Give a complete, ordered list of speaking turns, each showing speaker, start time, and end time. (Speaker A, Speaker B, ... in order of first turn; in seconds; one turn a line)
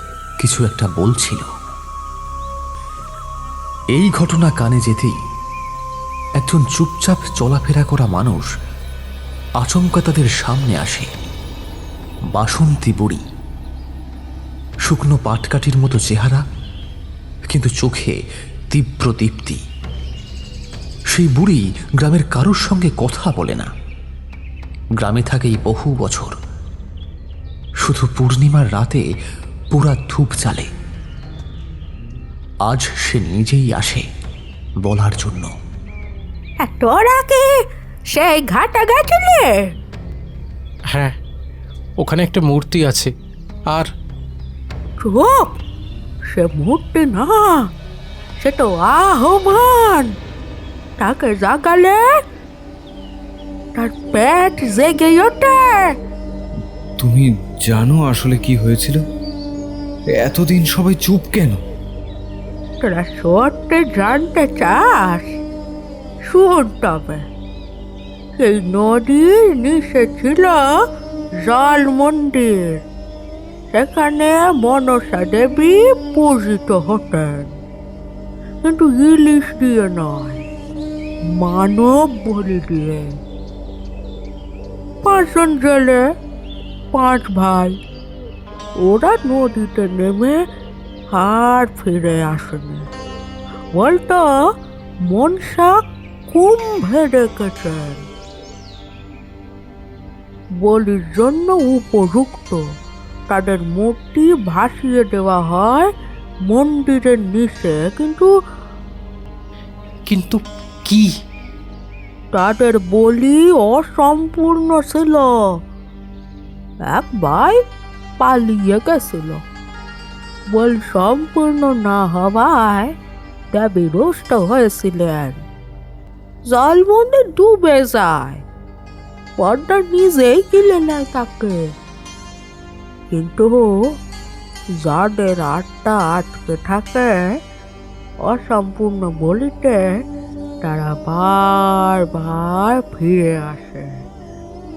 Speaker A: 0.4-1.5
Speaker A: 3.9-5.2
Speaker A: 6.4-8.5
Speaker A: 9.6-11.1
Speaker A: 12.3-13.2
Speaker A: 14.8-16.4
Speaker A: 17.5-18.2
Speaker A: 18.7-19.6
Speaker A: 21.1-23.7
Speaker A: 25.0-26.3
Speaker A: 27.8-29.1
Speaker A: 29.7-30.7
Speaker A: 32.7-34.1
Speaker A: 34.8-35.5
Speaker B: 36.6-37.5
Speaker B: 38.1-39.6
Speaker C: 42.0-43.1
Speaker B: 45.0-45.5
Speaker B: 46.3-47.7
Speaker B: 48.4-50.1
Speaker B: 51.0-52.0
Speaker B: 53.8-55.9
Speaker D: 57.0-59.0
Speaker D: 60.1-61.6
Speaker B: 62.8-65.3
Speaker B: 66.3-67.2
Speaker B: 68.4-70.7
Speaker B: 71.5-72.8
Speaker B: 73.7-77.5
Speaker B: 78.6-80.5
Speaker B: 81.3-83.2
Speaker B: 85.0-86.0
Speaker B: 86.9-87.8
Speaker B: 88.8-90.4
Speaker B: 91.1-92.9
Speaker B: 93.8-94.4
Speaker B: 95.1-95.8
Speaker B: 96.3-98.0
Speaker B: 100.6-102.6
Speaker B: 103.3-105.9
Speaker B: 106.5-108.3
Speaker C: 110.1-111.1
Speaker B: 112.3-115.4
Speaker B: 116.9-117.6
Speaker B: 118.2-119.4
Speaker B: 120.5-122.9
Speaker B: 123.5-125.4
Speaker B: 126.5-128.4
Speaker B: 129.4-131.7
Speaker B: 133.1-133.7
Speaker B: 134.8-137.4
Speaker B: 138.2-140.0
Speaker B: 140.6-143.9